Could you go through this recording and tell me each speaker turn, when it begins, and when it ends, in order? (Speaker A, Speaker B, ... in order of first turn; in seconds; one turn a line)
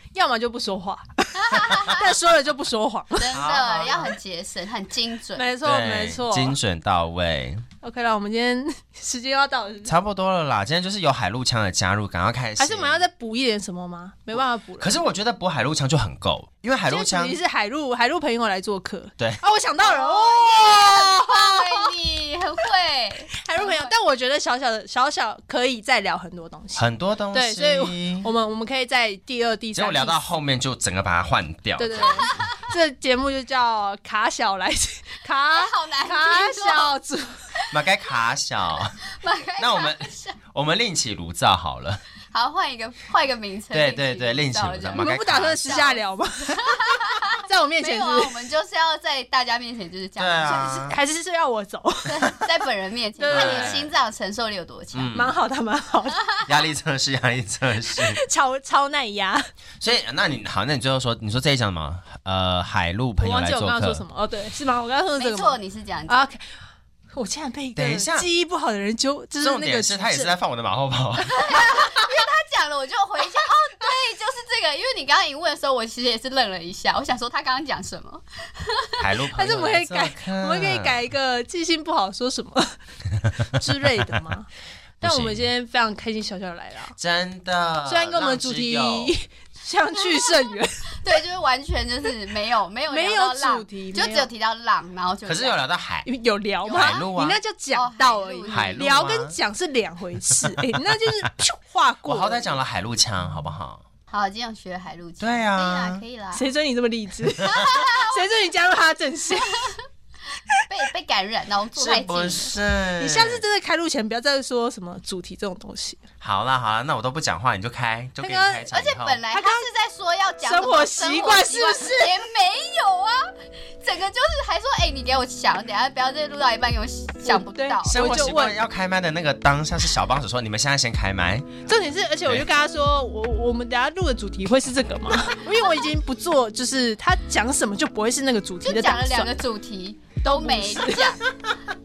Speaker A: 0.1-3.4
Speaker B: 1.4-2.0
Speaker B: 3.1-5.5
Speaker C: 3.3-4.1
Speaker A: 5.4-6.6
Speaker C: 5.6-7.6
Speaker A: 7.8-9.9
Speaker C: 9.8-13.0
Speaker A: 12.6-14.9
Speaker C: 14.8-17.4
Speaker A: 16.9-21.9
Speaker B: 19.8-23.9
Speaker A: 23.4-30.2
Speaker C: 26.8-28.3
Speaker C: 29.7-32.2
Speaker A: 31.8-37.5
Speaker B: 32.0-32.5
Speaker B: 35.5-36.9
Speaker C: 37.7-39.0
Speaker B: 39.0-40.4
Speaker C: 39.6-42.0
Speaker B: 42.3-50.6
Speaker C: 43.7-45.9
Speaker A: 45.0-46.8
Speaker A: 47.4-48.3
Speaker C: 50.2-51.0
Speaker A: 50.4-52.4
Speaker B: 52.1-55.1
Speaker A: 53.2-53.8
Speaker C: 53.3-53.9
Speaker C: 54.9-55.4
Speaker A: 55.1-56.2
Speaker C: 56.5-58.2
Speaker A: 57.9-59.5
Speaker C: 59.8-64.0
Speaker A: 63.2-66.4
Speaker B: 65.2-66.2
Speaker A: 67.1-70.3
Speaker C: 67.7-68.3
Speaker C: 69.4-71.6
Speaker B: 71.3-79.0
Speaker A: 71.5-72.1
Speaker C: 79.0-81.0
Speaker A: 79.3-82.8
Speaker A: 83.4-84.5
Speaker A: 85.0-86.9
Speaker C: 85.0-85.5
Speaker C: 87.0-89.1
Speaker A: 87.8-91.0
Speaker B: 89.9-95.6
Speaker A: 92.9-94.3
Speaker C: 95.2-96.1
Speaker A: 96.0-102.5
Speaker B: 96.6-97.1
Speaker C: 96.8-97.4
Speaker B: 97.7-98.9
Speaker C: 98.5-99.3
Speaker C: 102.0-103.8
Speaker B: 104.1-106.5
Speaker C: 105.2-106.0
Speaker A: 106.3-109.8
Speaker C: 107.4-107.7
Speaker B: 107.5-108.3
Speaker B: 110.7-112.5
Speaker C: 111.8-113.4
Speaker A: 113.0-116.0
Speaker C: 116.2-119.2
Speaker A: 118.2-118.7
Speaker B: 118.7-128.0
Speaker A: 119.3-119.6
Speaker A: 120.4-122.2
Speaker A: 127.2-128.6
Speaker C: 127.8-131.7
Speaker A: 131.7-139.3
Speaker B: 138.6-141.3
Speaker A: 140.3-141.1